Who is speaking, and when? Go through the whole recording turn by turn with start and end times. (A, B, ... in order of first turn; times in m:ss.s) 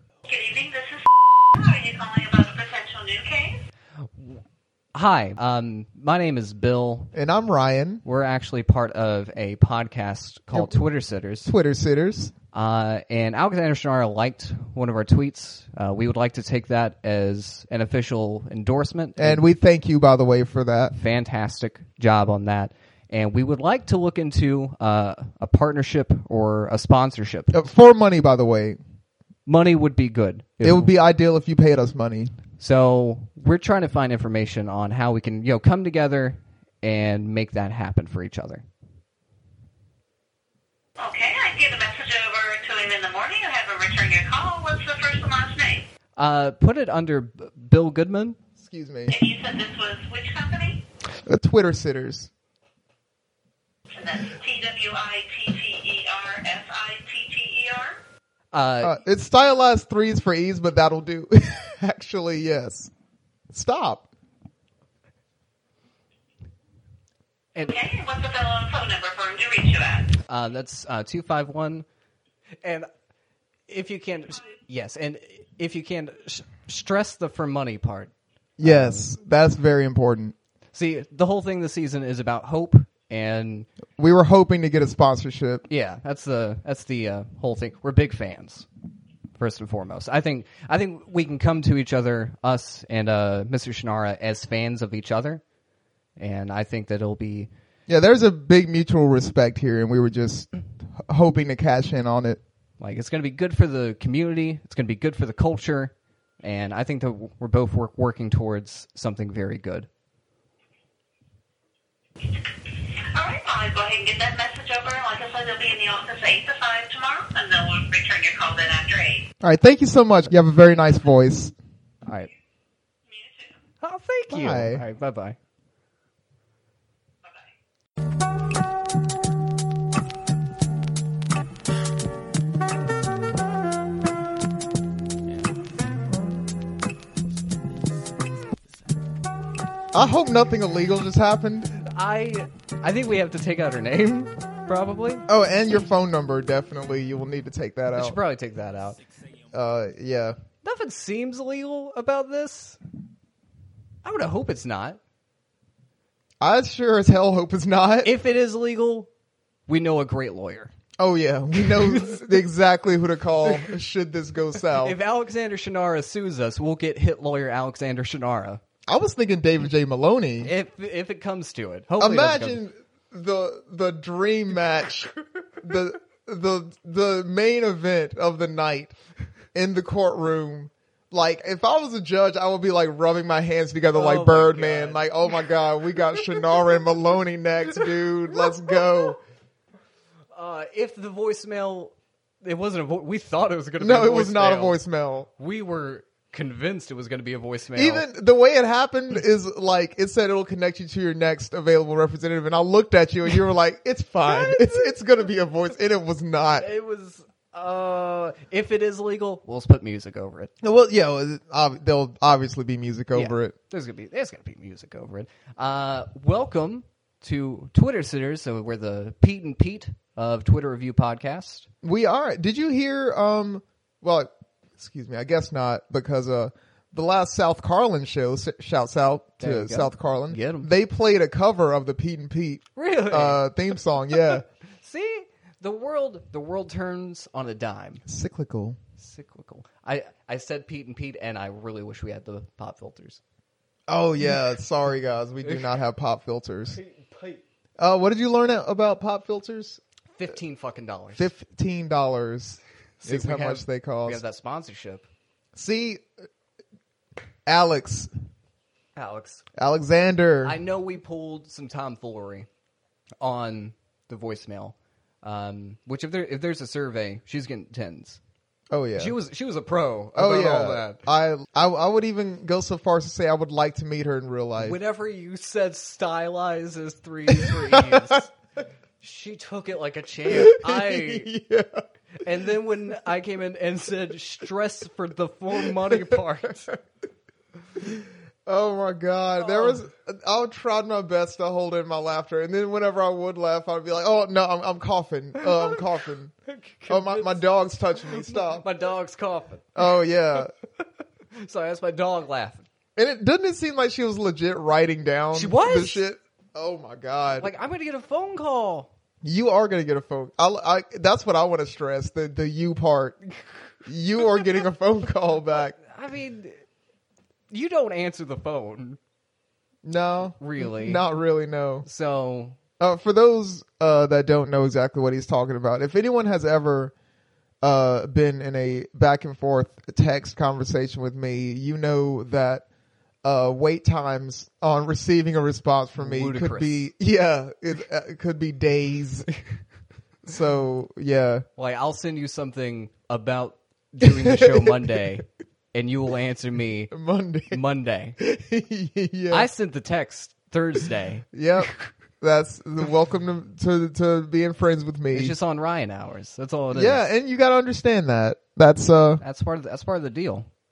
0:00.3-0:03.6 A
0:04.0-0:04.4 B
0:04.9-0:07.1 B
0:07.1-0:08.0 C
0:08.0-0:11.5 B
0:10.5-0:10.8 C
0:11.4-0:12.3 C
0:12.5-0:19.4 B
0:19.2-0:20.9 C
0:20.9-0:27.5 B
0:27.5-0:28.8 C
0:29.4-0:30.9 B
0:30.6-0:32.3 C
0:32.6-0:38.6 B
0:41.0-0:45.8 A
0:46.2-0:48.4 B
0:48.6-0:49.2 C
0:49.1-0:50.8 A
0:51.2-0:52.3 C
0:53.9-0:58.0 A
0:58.5-0:58.9 B
0:58.8-1:02.9 C
1:03.5-1:04.1 C
1:07.5-1:07.8 B
1:07.6-1:10.1 A
1:10.2-1:11.8 B
1:12.6-1:12.9 B
1:13.7-1:19.1 B
1:18.6-1:20.3 C
1:20.7-1:23.7 B
1:24.0-1:25.6 C
1:25.7-1:28.7 B
1:29.4-1:35.4 B
1:36.2-1:37.5 B
1:37.9-1:42.4 C
1:42.8-1:49.9 B
1:53.0-1:59.3 A
1:59.4-2:01.5 C
2:02.0-2:02.3 B
2:03.0-2:03.6 A
2:03.8-2:05.4 B
2:04.3-2:04.8 C
2:19.9-2:21.7 C
2:21.8-2:25.2 B
2:25.3-2:28.2 C
2:27.9-2:29.0 B
2:29.5-2:30.4 C
2:30.6-2:32.8 B
2:34.0-2:35.0 B
2:36.4-2:38.1 C
2:38.0-2:39.1 B
2:39.7-2:40.7 B
2:41.0-2:45.0 C
2:41.5-2:42.2 B
2:43.4-2:43.7 B
2:44.7-2:48.6 B
2:48.9-2:50.5 C
2:50.4-2:52.6 B
2:52.0-2:58.9 C
2:59.5-3:09.2 C
3:03.9-3:05.4 B
3:06.1-3:06.4 B
3:08.3-3:09.0 B
3:10.3-3:14.8 B
3:13.8-3:15.3 C
3:15.4-3:18.0 B
3:17.8-3:26.6 C
3:24.2-3:25.0 B
3:26.6-3:30.5 B
3:30.6-3:33.5 C
3:33.1-3:41.7 B
3:41.8-3:54.4 C
3:49.4-3:50.7 B
3:52.7-3:53.5 B
3:54.1-3:58.0 B
3:58.0-3:58.8 C
3:59.0-4:03.2 B
4:03.9-4:06.8 C
4:05.4-4:05.7 B
4:06.8-4:07.4 B
4:07.8-4:09.8 C
4:10.1-4:11.3 B
4:11.1-4:14.2 C
4:13.0-4:15.1 B
4:15.6-4:16.0 C
4:17.4-4:18.1 C
4:19.0-4:19.4 B
4:19.6-4:20.6 C
4:20.4-4:22.5 B
4:23.2-4:28.2 B
4:28.7-4:29.1 C
4:29.0-4:31.0 B
4:30.1-4:34.8 C
4:34.6-4:38.3 B
4:37.3-4:38.3 C
4:39.0-4:41.3 B
4:40.3-4:41.8 C
4:42.2-4:46.7 B
4:47.9-4:56.3 C
4:49.4-4:49.8 B
4:55.4-4:55.8 B
4:56.5-4:57.4 B
4:56.9-4:58.7 C
4:58.0-4:59.8 B
4:59.7-5:00.5 C
5:01.3-5:02.7 B
5:03.0-5:07.5 C
5:05.3-5:06.0 B
5:07.4-5:08.9 B
5:09.2-5:13.2 C
5:13.8-5:15.8 C
5:15.8-5:16.6 B
5:17.5-5:19.0 B
5:19.8-5:21.8 C
5:20.4-5:21.0 B
5:21.8-5:22.6 B
5:22.8-5:26.9 C
5:27.6-5:32.6 C
5:33.2-5:39.3 C
5:36.0-5:36.9 B
5:40.2-5:41.4 C
5:41.6-5:46.9 B
5:44.0-5:44.9 C
5:46.9-5:47.6 C
5:47.5-5:48.2 B
5:48.2-5:49.5 C
5:49.3-5:51.6 B
5:51.3-5:55.3 C
5:55.1-5:57.1 B
5:56.7-5:59.2 C
5:59.2-6:00.5 B